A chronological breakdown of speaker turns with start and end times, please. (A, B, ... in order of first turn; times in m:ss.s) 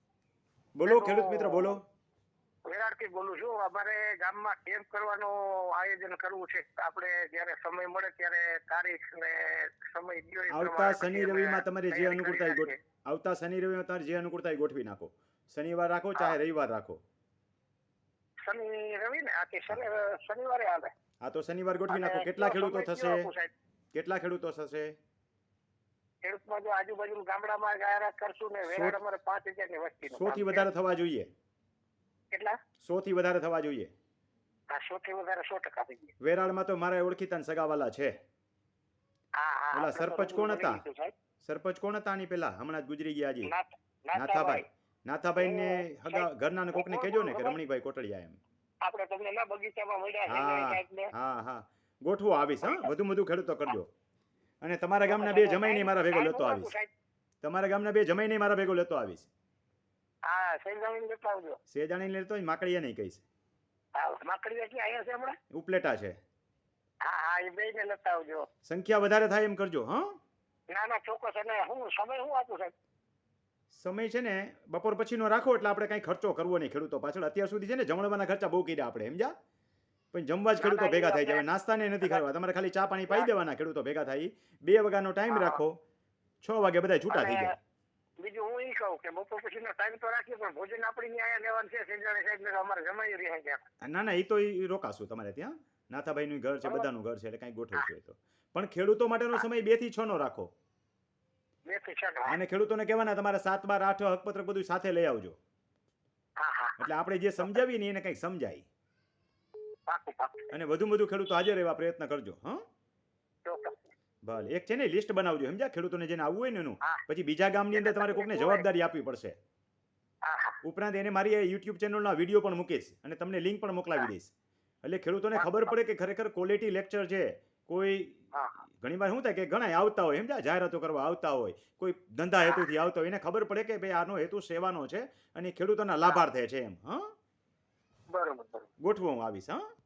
0:00.8-0:01.8 A
0:00.9-0:01.8 B
0:02.7-0:12.8 B
0:10.5-0:17.0 A
0:18.5-0:20.9 B
0:21.2-0:23.3 A
0:21.9-0:23.5 B
0:23.9-0:25.0 A
0:26.2-0:30.7 B
0:28.7-0:29.0 A
0:30.1-0:31.3 A
0:32.3-0:32.6 B
0:32.8-0:33.9 A
0:34.7-0:36.1 B
0:36.2-0:38.2 A
0:39.4-0:41.1 B
0:39.7-0:40.8 A
0:41.4-0:43.5 A
0:43.4-0:44.6 B
0:44.1-0:48.4 A
0:45.4-0:47.6 B
0:48.8-0:51.1 B
0:50.3-0:53.9 A
0:52.6-0:52.9 B
0:54.6-0:56.7 A
0:55.0-0:56.9 B
0:57.4-0:59.3 A
1:00.3-1:01.6 B
1:01.7-1:03.2 A
1:04.0-1:05.4 B
1:05.5-1:06.2 A
1:07.0-1:08.5 B
1:08.6-1:10.1 A
1:10.7-1:12.7 B
1:13.7-1:19.3 A
1:20.1-1:25.8 A
1:20.6-1:21.5 B
1:25.3-1:25.6 B
1:26.4-1:27.6 A
1:27.1-1:27.6 B
1:28.2-1:33.6 B
1:33.8-1:40.5 A
1:41.7-1:42.4 B
1:42.3-1:45.4 A
1:46.4-1:46.9 B
1:46.8-1:48.7 A
1:49.9-1:50.5 B
1:50.5-1:52.6 A
1:53.5-1:53.9 B
1:54.3-1:59.4 A
1:57.7-1:58.6 B
2:00.2-2:00.6 B
2:00.6-2:04.3 A
2:04.8-2:17.1 A
2:05.4-2:05.7 B
2:08.3-2:08.6 B
2:12.4-2:12.7 B
2:18.1-2:18.7 B
2:18.8-2:19.6 A